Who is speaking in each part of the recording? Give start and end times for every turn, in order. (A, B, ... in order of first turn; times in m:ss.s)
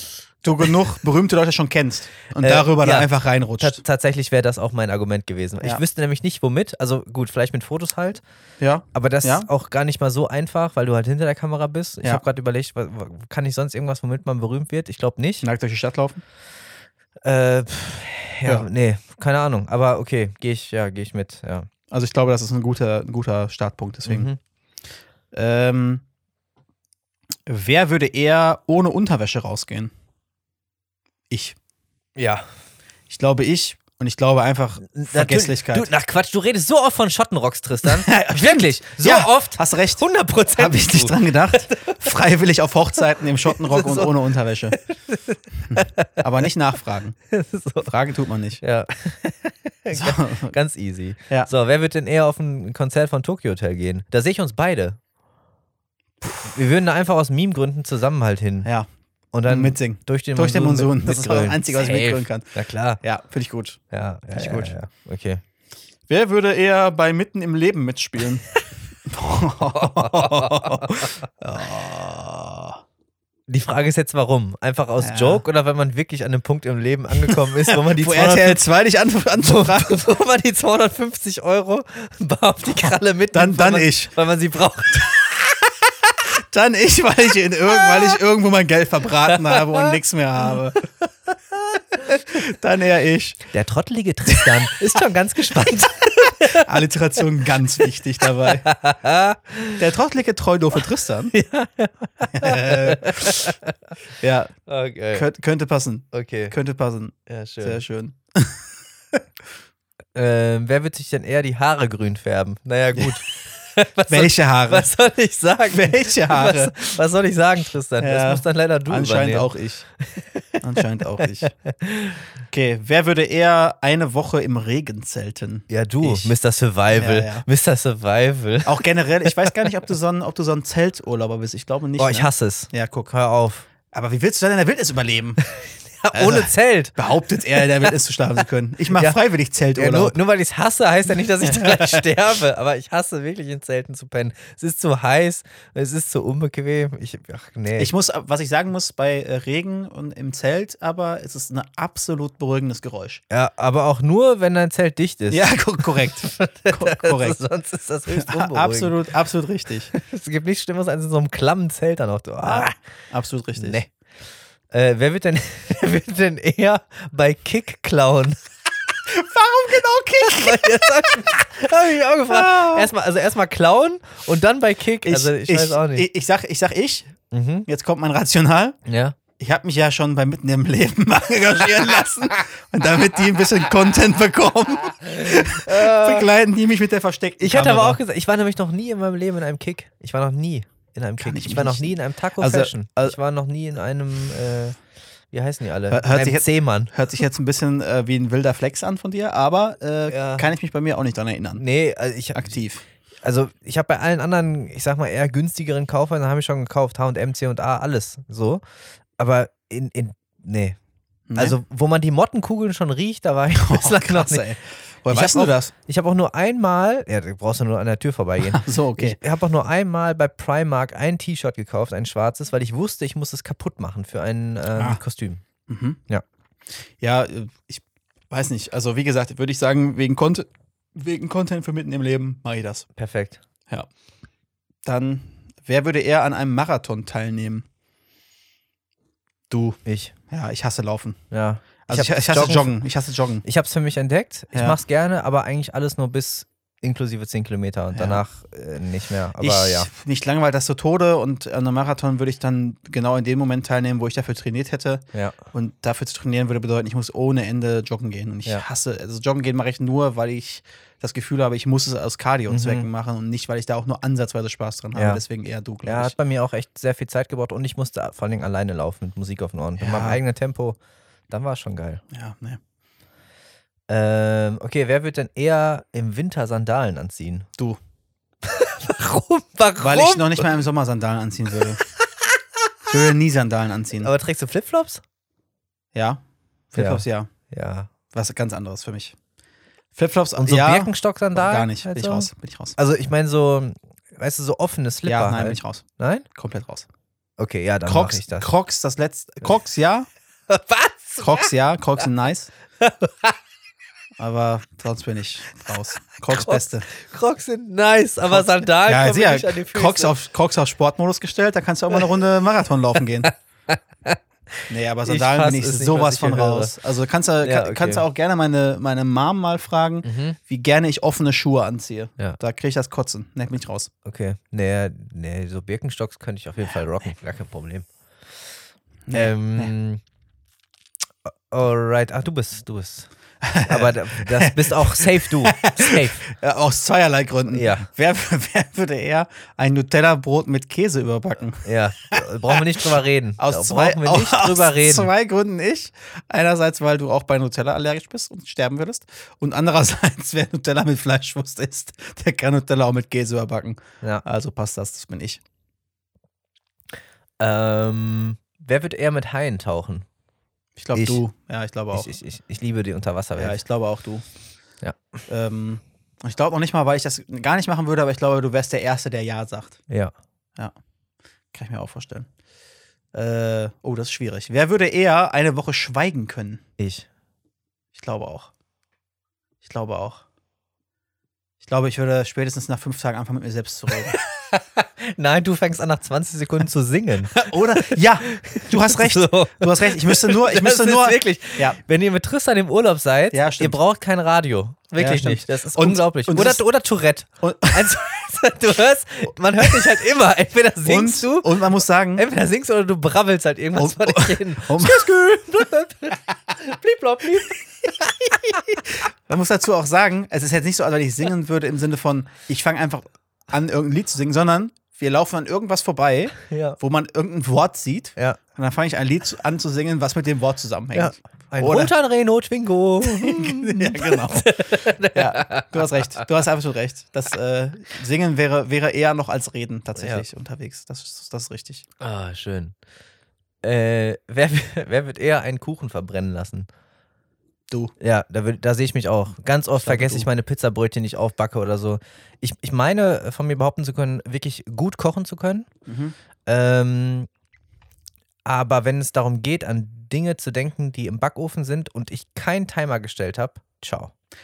0:00.4-0:03.8 A
0:02.4-0:03.1 B
0:03.6-0:08.2 B
0:08.6-0:09.5 A
0:08.9-0:15.4 B
0:15.4-0:16.2 A
0:17.2-0:21.7 B
0:21.9-0:24.3 A
0:24.0-0:24.4 B
0:25.3-0:26.0 A
0:27.5-0:29.9 A
0:31.3-0:31.6 A
0:32.2-0:32.4 B
0:33.1-0:35.9 A
0:34.8-0:42.0 B
0:37.8-0:40.0 A
0:40.5-0:44.8 A
0:43.4-0:44.1 B
0:44.8-0:46.2 B
0:45.7-0:47.2 A
0:47.3-0:47.9 B
0:47.8-0:48.6 A
0:48.6-0:55.0 B
0:49.9-0:50.5 A
0:56.2-0:58.7 B
0:59.3-1:03.0 B
0:59.5-1:04.7 A
1:03.9-1:05.4 B
1:06.1-1:08.5 A
1:09.0-1:12.8 A
1:09.6-1:11.2 B
1:13.5-1:18.6 B
1:15.0-1:15.4 A
1:17.3-1:20.0 A
1:19.4-1:25.4 B
1:23.3-1:24.1 A
1:26.2-1:30.8 A
1:29.3-1:29.9 B
1:32.0-1:33.4 A
1:33.5-1:36.7 B
1:34.3-1:34.7 A
1:36.5-1:38.6 A
1:38.5-1:39.8 B
1:39.8-1:41.3 A
1:41.3-1:43.7 B
1:42.3-1:43.5 A
1:44.2-1:44.5 A
1:44.7-1:45.2 B
1:45.1-1:49.2 A
1:46.1-1:46.6 B
1:47.3-1:47.8 B
1:50.1-1:59.5 B
1:54.1-1:54.9 A
1:55.7-1:56.7 A
1:58.0-1:59.8 A
2:00.0-2:00.5 B
2:00.6-2:01.5 A
2:01.2-2:02.2 B
2:02.5-2:06.3 A
2:05.7-2:08.8 B
2:06.9-2:07.4 A
2:08.6-2:13.1 A
2:12.0-2:13.6 B
2:13.9-2:15.4 A
2:15.4-2:17.9 B
2:16.1-2:20.2 A
2:18.9-2:19.2 B
2:19.7-2:27.9 B
2:21.4-2:22.0 A
2:27.8-2:33.2 A
2:33.3-2:39.0 B
2:35.3-2:37.4 A
2:38.1-2:39.9 A
2:39.9-2:42.7 B
2:42.4-2:43.8 A
2:43.6-2:43.9 B
2:44.7-2:48.4 B
2:49.0-2:51.3 A
2:50.2-2:56.1 B
2:52.3-2:52.9 A
2:55.0-2:57.1 A
2:57.3-2:57.7 B
2:57.6-2:58.8 A
2:58.8-2:59.2 B
2:59.4-3:08.0 A
3:05.0-3:06.3 B
3:07.4-3:14.8 B
3:11.2-3:13.2 A
3:15.3-3:16.9 B
3:15.9-3:21.6 A
3:20.1-3:20.5 B
3:21.6-3:22.6 B
3:22.3-3:22.8 A
3:23.2-3:28.6 B
3:29.2-3:30.8 B
3:31.3-3:31.6 A
3:31.4-3:34.4 B
3:33.5-3:35.7 A
3:35.1-3:45.4 B
3:38.4-3:39.2 A
3:45.7-3:46.0 A
3:47.0-3:52.8 A
3:53.0-3:53.4 B
3:54.8-3:57.6 A
3:59.5-4:01.2 A
3:59.8-4:00.1 B
4:01.3-4:02.7 B
4:01.9-4:03.4 A
4:03.4-4:09.9 B
4:04.5-4:04.8 A
4:07.9-4:08.2 A
4:09.4-4:26.1 A
4:22.5-4:22.9 B
4:24.9-4:25.2 B
4:25.8-4:30.8 B
4:29.8-4:30.2 A
4:31.3-4:32.0 B
4:32.1-4:32.6 A
4:33.9-4:37.5 B
4:38.4-4:40.5 B
4:39.8-4:41.8 A
4:41.8-4:42.4 B
4:42.9-4:44.1 A
4:44.0-4:45.0 B
4:45.9-4:47.3 A
4:46.8-4:47.9 B
4:48.1-4:49.1 A
4:49.9-4:52.8 A
4:50.4-4:56.2 B
4:55.0-4:56.9 A
4:57.4-4:58.5 B
4:57.8-5:00.1 A
5:00.5-5:01.5 B
5:01.2-5:02.5 A
5:02.8-5:03.3 B
5:04.2-5:06.9 A
5:06.3-5:10.1 B
5:08.2-5:13.3 A
5:13.2-5:16.7 B
5:14.7-5:23.9 A
5:17.4-5:18.0 B
5:20.0-5:20.4 B
5:24.0-5:27.9 B
5:29.1-5:29.7 A
5:29.1-5:30.0 B
5:31.2-5:33.1 B
5:33.4-5:42.8 A
5:33.6-5:36.2 B
5:37.5-5:37.9 B
5:41.6-5:45.1 B
5:43.4-5:55.4 A
5:57.4-6:00.0 B
6:00.8-6:02.1 A
6:00.9-6:01.2 B
6:01.9-6:03.6 B
6:03.4-6:04.2 A
6:05.3-6:09.8 A
6:09.9-6:10.1 B
6:11.5-6:12.3 A
6:13.1-6:16.6 A
6:16.8-6:17.1 B
6:17.9-6:18.5 A
6:19.6-6:20.2 A
6:21.6-6:24.2 A
6:24.1-6:48.8 B
6:27.3-6:31.8 A
6:33.3-6:33.8 A
6:35.0-6:36.6 A
6:37.4-6:38.0 A
6:40.8-6:42.2 A
6:43.7-6:45.2 A
6:48.7-7:01.9 A
6:56.5-6:56.8 B
7:00.9-7:06.2 B
7:03.0-7:11.8 A
7:10.0-7:10.2 B
7:12.0-7:12.7 B
7:13.6-7:16.7 B
7:18.0-7:25.7 B
7:19.8-7:20.3 A
7:25.9-7:26.1 A
7:26.4-7:27.3 B
7:28.4-7:34.1 B